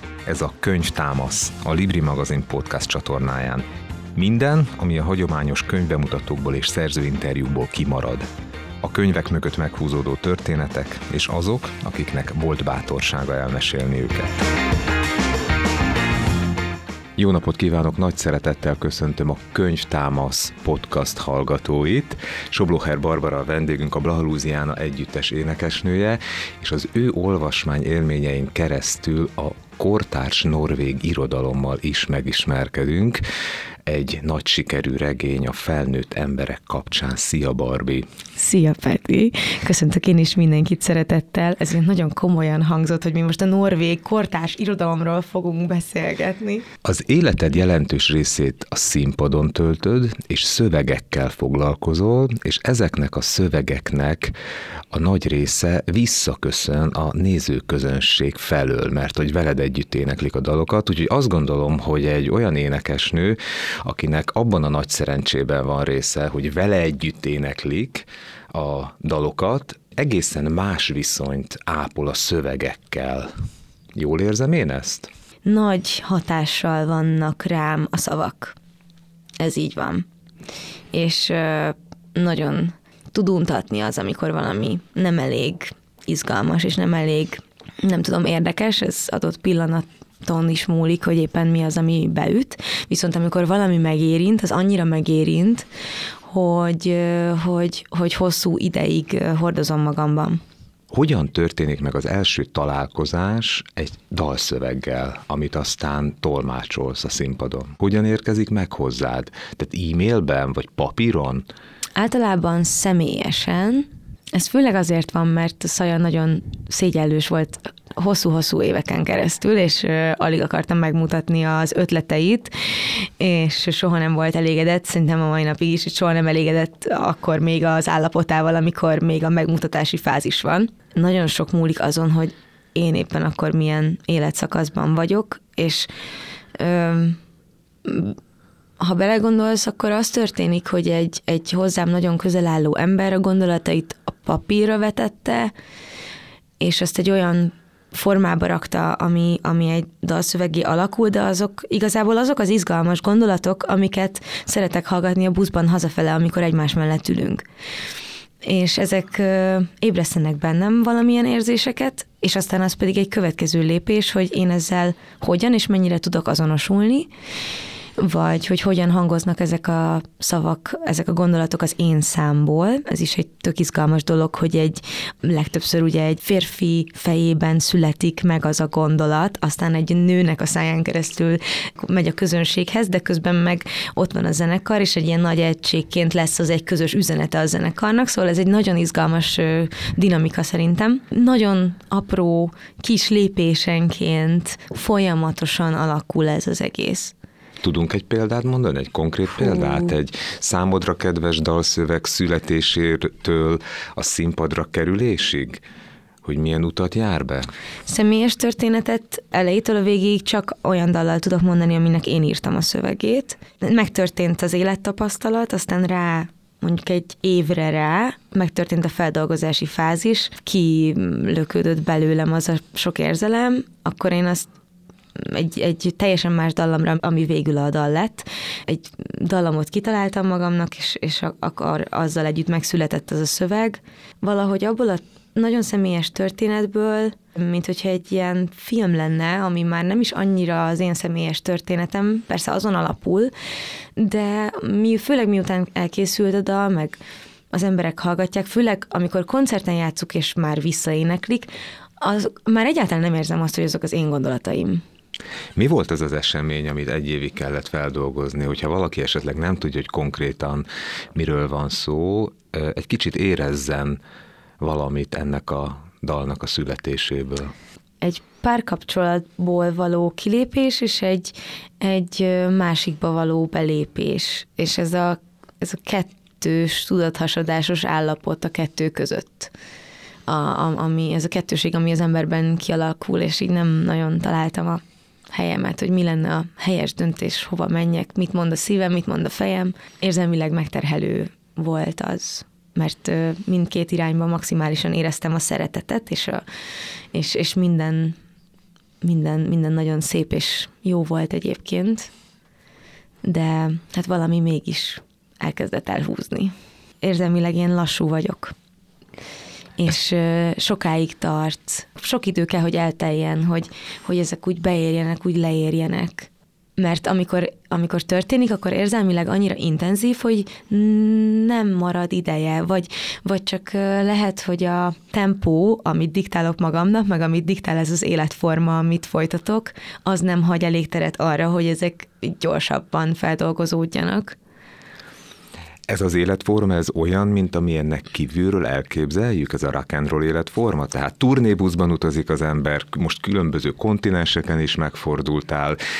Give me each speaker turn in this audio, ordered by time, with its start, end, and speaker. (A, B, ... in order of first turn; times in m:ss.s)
0:00.3-0:08.3 A
0:08.8-0:14.3 A
0:17.2-0:33.2 A
0:33.8-0:38.1 A
0:38.4-0:46.6 B
0:46.8-0:54.3 A
0:54.9-1:13.3 A
1:13.9-1:15.1 A
1:15.4-1:18.6 B
1:19.4-1:20.1 B
1:20.9-1:35.7 B
1:36.2-1:40.4 B
1:40.9-1:51.4 A
1:52.0-2:15.9 B
2:16.5-2:17.2 B
2:17.8-2:18.2 B
2:18.8-2:25.5 B
2:26.6-2:37.4 B
2:38.4-2:47.1 B
2:48.0-3:17.1 B
3:17.6-3:25.6 A
3:19.5-3:19.9 B
3:26.2-3:27.5 A
3:27.8-3:44.5 B
3:45.2-4:03.3 B
4:04.0-4:07.0 B
4:07.5-4:14.8 B
4:15.6-4:24.0 A
4:24.6-4:27.5 A
4:28.0-4:39.5 B
4:40.3-4:56.4 B
4:57.1-4:58.2 B
4:59.0-5:02.1 B
5:03.2-5:08.5 B
5:09.8-5:34.4 B
5:35.9-5:45.8 A